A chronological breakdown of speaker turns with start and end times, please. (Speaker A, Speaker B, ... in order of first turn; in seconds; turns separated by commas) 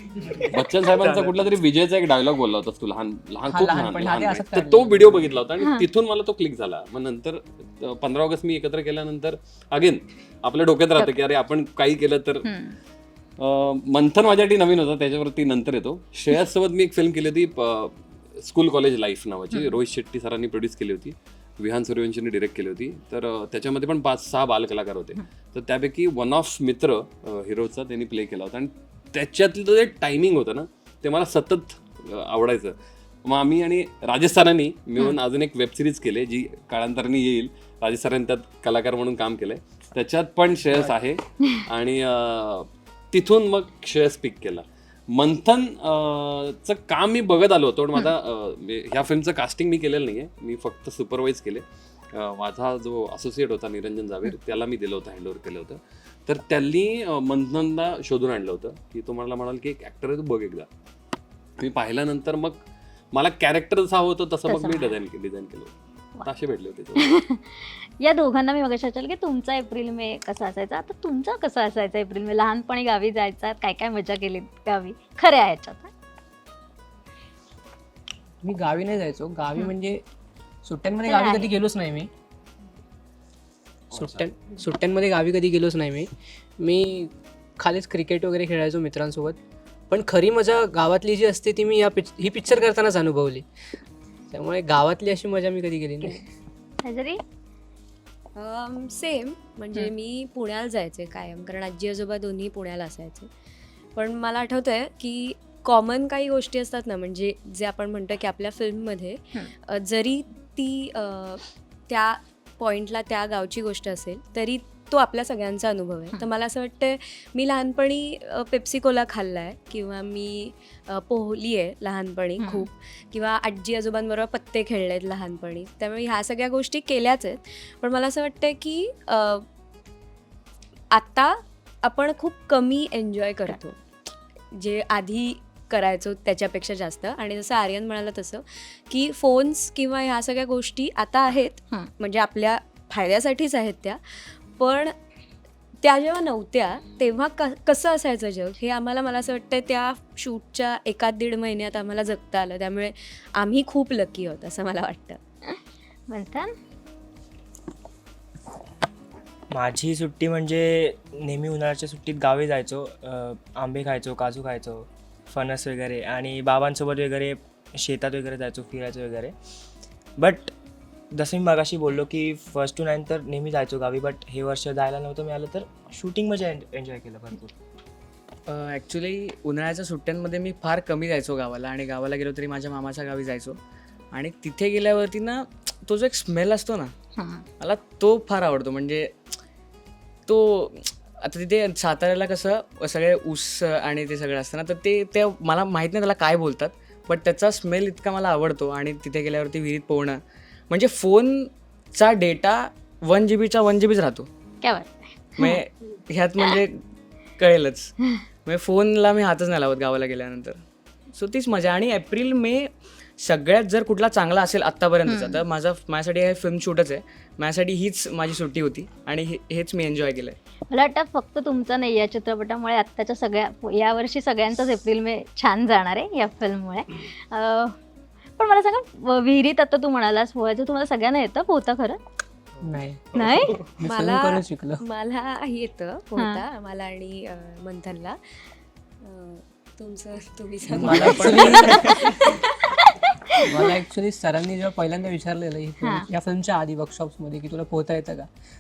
Speaker A: 0.2-1.4, Speaker B: 0.3-12.5, Speaker C: 3.5-5.3, Speaker D: 12.4-12.8, Speaker B: 13.4-60.7, Speaker B: 61.6-62.6, Speaker B: 63.1-65.7, Speaker D: 64.5-65.0, Speaker B: 66.2-67.1, Speaker D: 67.0-75.9, Speaker C: 78.4-80.0, Speaker C: 80.6-82.1, Speaker D: 81.1-81.5, Speaker B: 83.9-84.3, Speaker C: 83.9-89.4, Speaker C: 89.9-93.5, Speaker C: 94.3-96.2, Speaker D: 96.8-97.2, Speaker E: 98.4-103.3, Speaker E: 104.0-129.4, Speaker D: 122.4-122.7, Speaker E: 130.9-133.8, Speaker E: 134.5-144.0, Speaker E: 144.5-144.9, Speaker E: 145.8-155.2, Speaker D: 156.1-156.5, Speaker A: 159.5-169.3, Speaker A: 170.2-170.5, Speaker A: 171.1-177.6, Speaker F: 178.5-183.6, Speaker F: 184.1-186.9, Speaker D: 187.2-187.4, Speaker F: 187.6-189.3, Speaker F: 190.3-204.3, Speaker D: 204.6-205.6, Speaker F: 205.4-206.8, Speaker F: 207.4-210.6, Speaker F: 211.1-220.4, Speaker D: 215.1-215.4, Speaker D: 220.7-227.8, Speaker D: 228.4-232.0, Speaker C: 232.6-234.8, Speaker D: 233.1-233.6, Speaker E: 233.8-238.2, Speaker D: 236.2-236.4, Speaker E: 239.0-242.4, Speaker C: 240.7-241.9, Speaker F: 240.9-241.9, Speaker C: 243.5-248.3